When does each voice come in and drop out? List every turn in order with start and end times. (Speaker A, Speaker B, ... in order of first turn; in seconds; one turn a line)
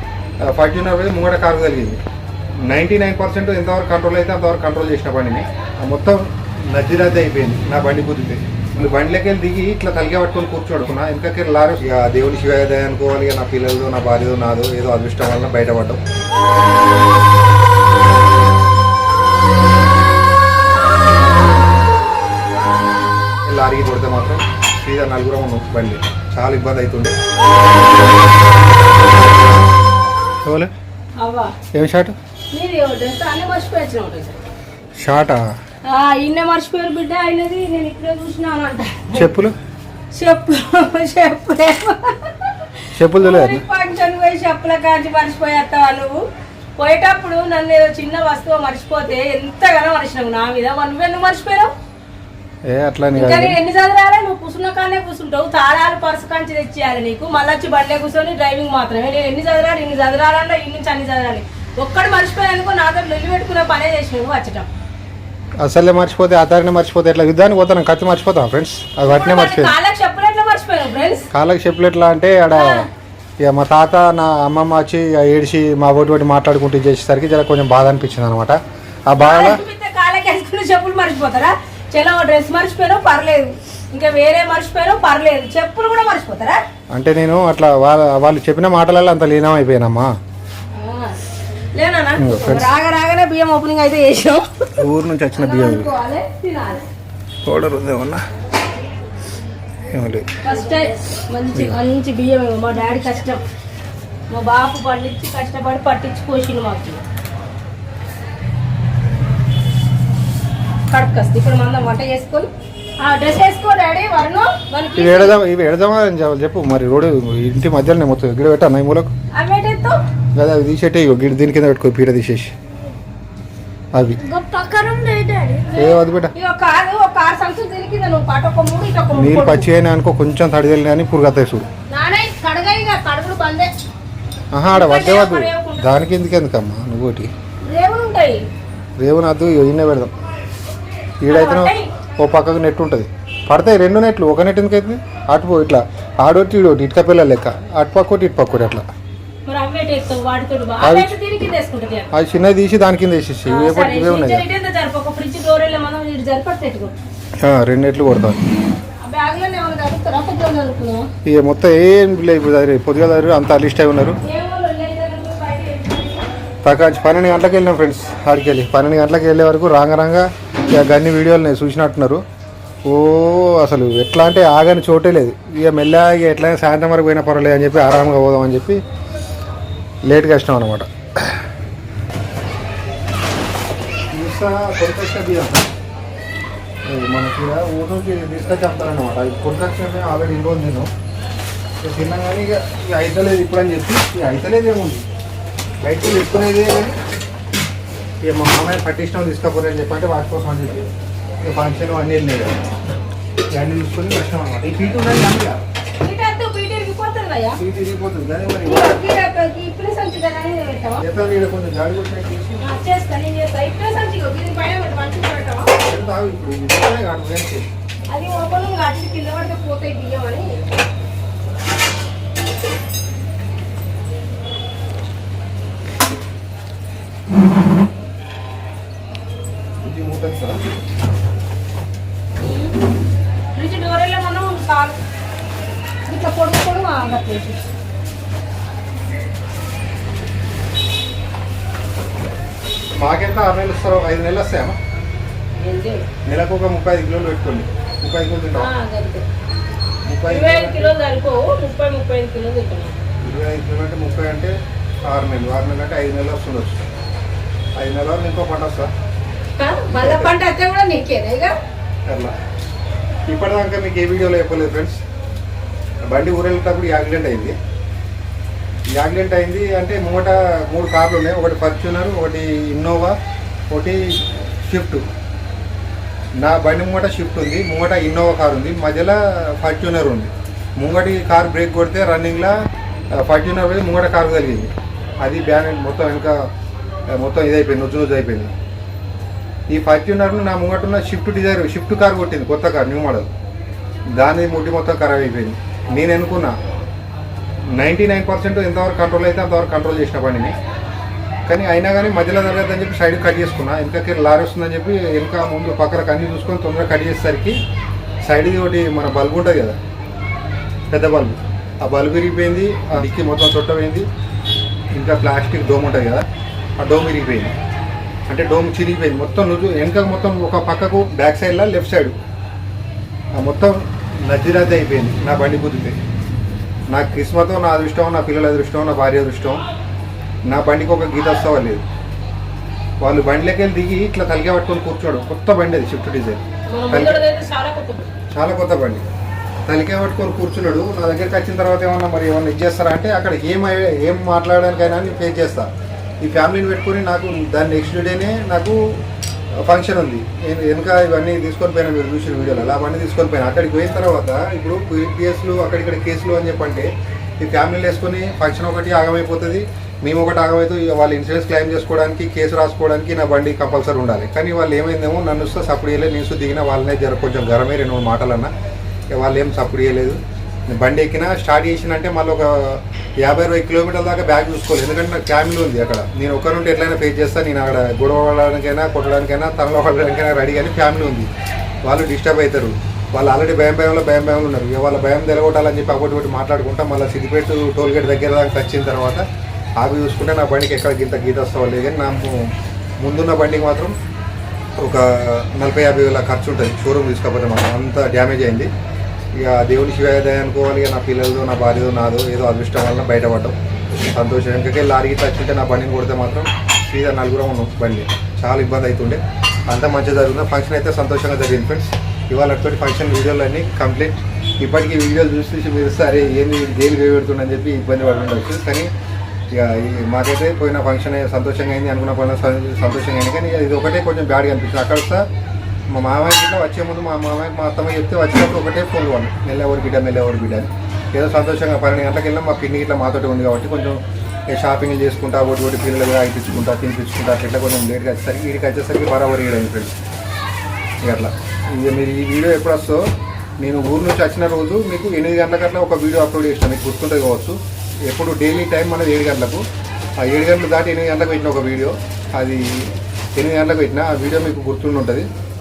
Speaker A: 0.4-2.0
Speaker A: 2.7-16.0
Speaker A: 23.5-27.2
Speaker A: 30.4-30.7
Speaker B: 31.2-31.5
Speaker A: 31.7-32.1
Speaker B: 32.5-34.4
Speaker A: 35.0-35.4
Speaker B: 35.9-39.3
Speaker A: 39.1-39.5
Speaker B: 40.1-46.2
Speaker A: 42.9-43.6
Speaker B: 46.8-51.7
Speaker A: 52.7-53.6
Speaker B: 53.1-64.7
Speaker A: 65.6-69.7
Speaker B: 69.0-71.3
Speaker A: 71.3-72.8
Speaker B: 72.5-72.9
Speaker A: 73.4-79.6
Speaker B: 79.2-86.6
Speaker A: 86.9-90.1
Speaker B: 90.7-91.2
Speaker B: 91.7-94.8
Speaker A: 92.2-92.7
Speaker A: 94.8-95.9
Speaker B: 95.3-96.9
Speaker A: 97.5-98.2
Speaker A: 99.9-100.3
Speaker B: 100.4-103.4
Speaker B: 104.3-107.0
Speaker B: 110.9-115.4
Speaker A: 115.0-119.1
Speaker B: 119.3-120.0
Speaker A: 120.4-122.5
Speaker A: 124.0-124.2
Speaker B: 124.2-129.7
Speaker A: 125.8-126.3
Speaker A: 129.2-131.7
Speaker B: 131.9-133.7
Speaker A: 134.5-137.3
Speaker B: 134.7-135.9
Speaker B: 137.7-138.4
Speaker A: 139.0-140.1
Speaker A: 141.2-148.8
Speaker B: 141.3-141.9
Speaker B: 149.5-152.1
Speaker A: 150.8-151.1
Speaker A: 152.1-154.4
Speaker B: 153.5-156.9
Speaker A: 157.4-158.5
Speaker B: 159.0-161.1
Speaker A: 161.2-164.2
Speaker B: 164.2-166.3
Speaker A: 166.6-172.2
Speaker A: 172.9-178.8
Speaker A: 180.1-181.4
Speaker A: 184.1-185.7
Speaker A: 186.9-190.9
Speaker A: 191.8-195.1
Speaker A: 195.8-197.0
Speaker A: 198.2-200.9
Speaker A: 201.4-202.6
Speaker A: 203.5-205.6
Speaker B: 206.0-207.6
Speaker A: 207.6-209.0
Speaker B: 208.7-211.0
Speaker A: 211.0-212.6
Speaker B: 212.6-215.7
Speaker A: 215.8-217.7
Speaker B: 218.1-220.7
Speaker A: 229.8-230.6
Speaker B: 232.4-232.7
Speaker B: 233.6-235.0
Speaker B: 236.1-237.7
Speaker A: 243.0-244.8
Speaker B: 245.6-246.1
Speaker A: 246.3-248.7
Speaker B: 248.6-249.2
Speaker A: 250.1-250.9
Speaker B: 250.3-253.0
Speaker A: 253.2-254.5
Speaker A: 255.1-256.9
Speaker A: 257.8-258.9
Speaker B: 259.6-261.6
Speaker A: 259.9-260.3
Speaker A: 262.1-262.3
Speaker A: 263.3-265.0
Speaker A: 266.1-267.6
Speaker A: 269.0-273.2
Speaker A: 273.7-275.1
Speaker A: 276.4-282.6
Speaker A: 283.1-286.5
Speaker A: 287.1-288.5
Speaker A: 289.7-293.3
Speaker A: 294.2-296.6
Speaker A: 297.8-300.5
Speaker A: 301.5-307.6
Speaker A: 308.3-309.8
Speaker A: 310.9-314.1
Speaker A: 314.9-316.2
Speaker A: 316.8-317.6
Speaker A: 318.3-322.2
Speaker A: 323.4-326.0
Speaker A: 326.9-329.6
Speaker A: 330.5-331.8
Speaker A: 333.0-337.2
Speaker B: 336.7-338.1
Speaker A: 338.3-339.0
Speaker A: 339.7-345.7
Speaker A: 346.2-348.8
Speaker A: 349.6-356.9
Speaker A: 357.4-368.5
Speaker A: 369.1-381.3
Speaker A: 381.9-389.2
Speaker A: 389.8-392.5
Speaker A: 393.0-393.9
Speaker A: 394.8-398.7
Speaker A: 399.4-418.9
Speaker A: 419.5-425.3
Speaker A: 425.9-434.0
Speaker A: 434.5-439.9
Speaker A: 441.1-443.1
Speaker A: 443.6-449.6
Speaker A: 450.2-455.3